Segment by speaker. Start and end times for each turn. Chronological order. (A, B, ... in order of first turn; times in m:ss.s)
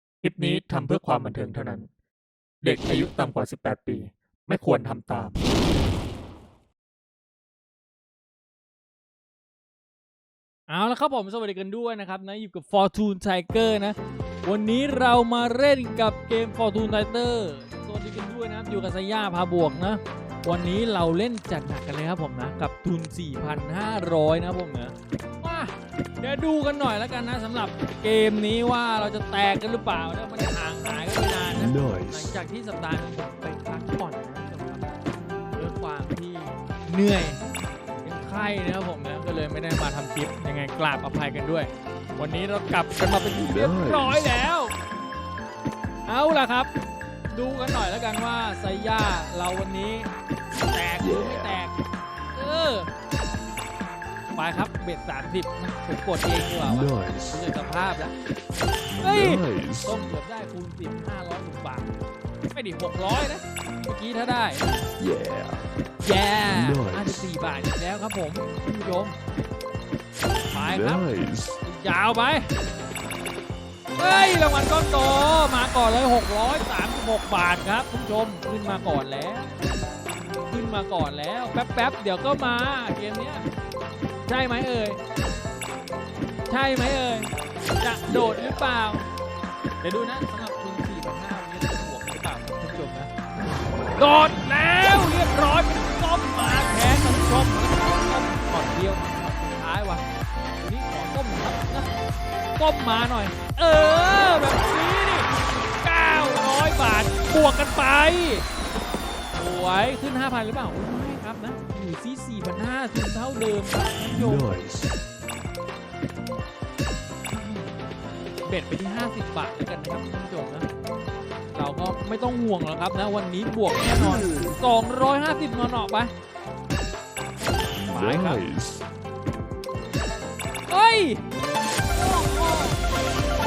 0:00.2-0:01.9 A
0:02.6-0:05.4 A
0:10.7-0:37.4 B
0:31.6-0:32.3 C
0:38.0-0:44.7 B
0:43.4-0:44.3 C
0:46.1-0:46.7 B
0:47.3-0:50.1 B
0:50.7-0:51.7 B
0:52.3-0:52.9 B
0:54.3-0:58.1 B
0:56.7-0:57.4 C
0:59.0-1:01.9 B
0:59.0-0:59.9 C
1:02.5-1:04.7 B
1:06.0-1:09.2 B
1:06.5-1:07.2 C
1:10.5-1:11.1 B
1:10.7-1:11.6 C
1:11.6-1:12.5 B
1:14.0-1:19.6 B
1:20.5-1:23.5 B
1:24.3-1:25.0 B
1:26.5-1:29.1 B
1:29.8-1:33.1 B
1:34.0-1:40.0 B
1:40.6-1:41.9 B
1:42.6-1:48.4 B
1:49.3-1:54.5 B
1:54.2-1:55.0 C
1:57.3-1:57.9 B
1:58.4-2:00.7 B
2:01.5-2:06.1 B
2:07.7-2:08.4 B
2:07.9-2:08.8 C
2:10.7-2:11.2 B
2:11.9-2:12.8 B